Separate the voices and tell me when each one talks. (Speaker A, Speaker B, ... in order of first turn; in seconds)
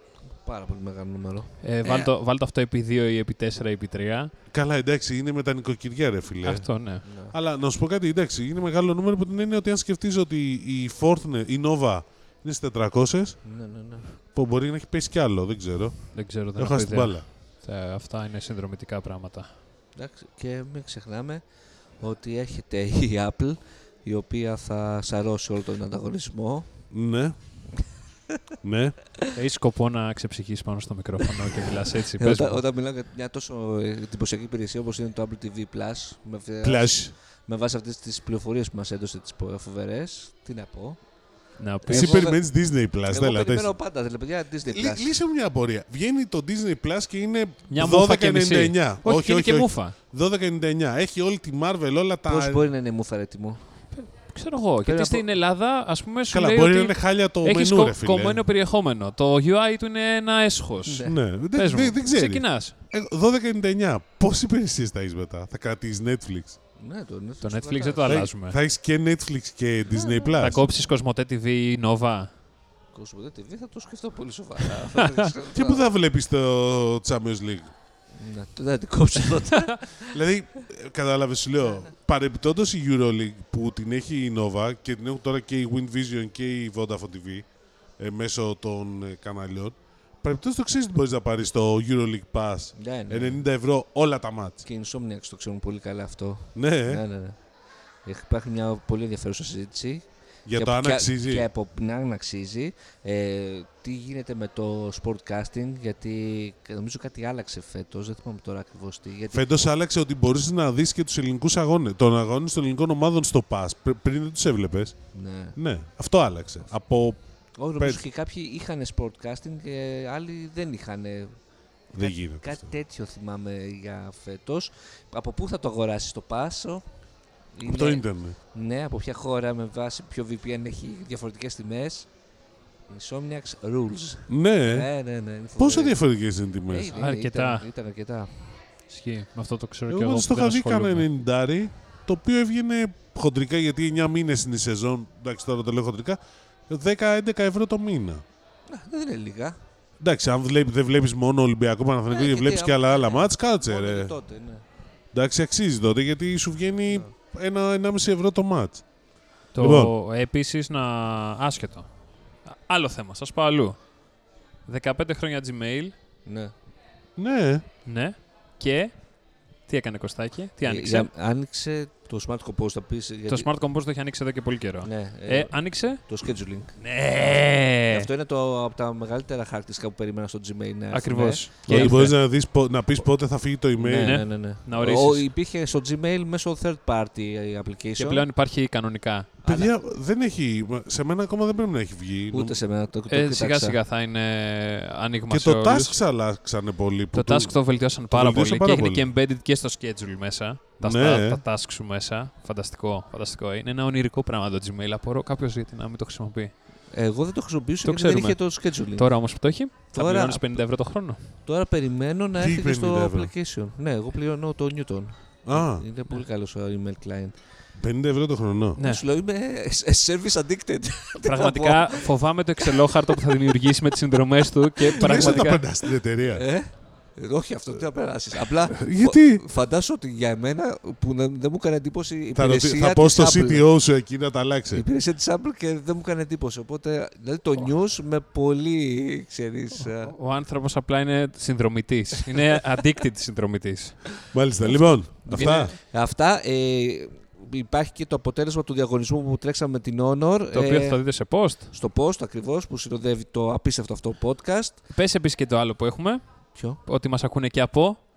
Speaker A: 0.4-2.1, 7.0-7.3, 13.4-14.1, 20.0-21.4, 22.0-26.7, 32.2-41.0, 41.9-42.4, 43.1-45.1, 52.3-53.6, 54.8-55.3, 60.9-61.1, 66.8-68.3, 72.9-75.8, 78.2-80.1, 92.8-93.4, 94.7-97.4, 98.0-109.4, 115.1-115.6, 117.6-121.3, 122.0-126.8, 127.5-132.1, 132.9-136.0, 136.7-138.5, 148.7-149.6, 152.1-154.6, 166.3-166.5, 170.7-173.5, 174.8-176.7, 177.9-182.1, 183.8-188.2, 189.4-189.7, 192.3-193.8, 206.9-209.2, 209.9-210.7, 211.4-217.4, 218.8-222.1, 222.6-223.5, 224.6-225.7, 226.3-233.6, 234.7-240.1, 244.7-251.0, 251.7-254.8
Speaker B: 1.6-4.3, 6.4-7.0, 16.1-19.5, 29.3-32.6, 41.6-42.3, 47.7-49.9, 53.9-62.7, 67.4-68.6, 70.3-72.3, 74.8-75.3, 79.6-79.8, 136.9-137.7, 138.9-141.1, 159.5-161.9, 162.4-163.8, 164.7-165.9, 167.8-168.9, 169.7-171.1, 173.3-176.0, 176.8-178.1, 180.9-182.2, 184.0-185.2, 188.0-189.4, 193.1-196.0, 197.1-206.5, 207.8-211.3, 221.2-225.7, 239.8-244.2, 245.3-245.7, 250.5-251.7, 254.9-258.1
Speaker C: 4.5-13.4, 14.2-17.2, 26.9-27.4, 28.6-29.0, 36.6-37.1, 41.9-43.7, 44.7-52.7, 56.3-58.4, 61.1-66.6, 68.0-70.6, 75.5-77.7, 80.0-87.5, 88.0-94.6, 96.5-97.0, 100.5-101.5, 109.3-115.0, 115.5-117.2, 121.9-122.6, 127.6-128.4, 134.3-134.9, 135.6-136.9, 139.9-148.2, 150.0-154.1, 155.1-158.8, 159.6-159.9, 167.2-167.6, 181.7-184.2, 189.4-192.6, 195.3-197.5, 198.1-199.1, 200.8-201.4, 212.4-213.3, 215.5-215.8, 217.8-218.8, 225.0-226.4, 228.7-229.4, 232.3-234.8, 244.3-245.8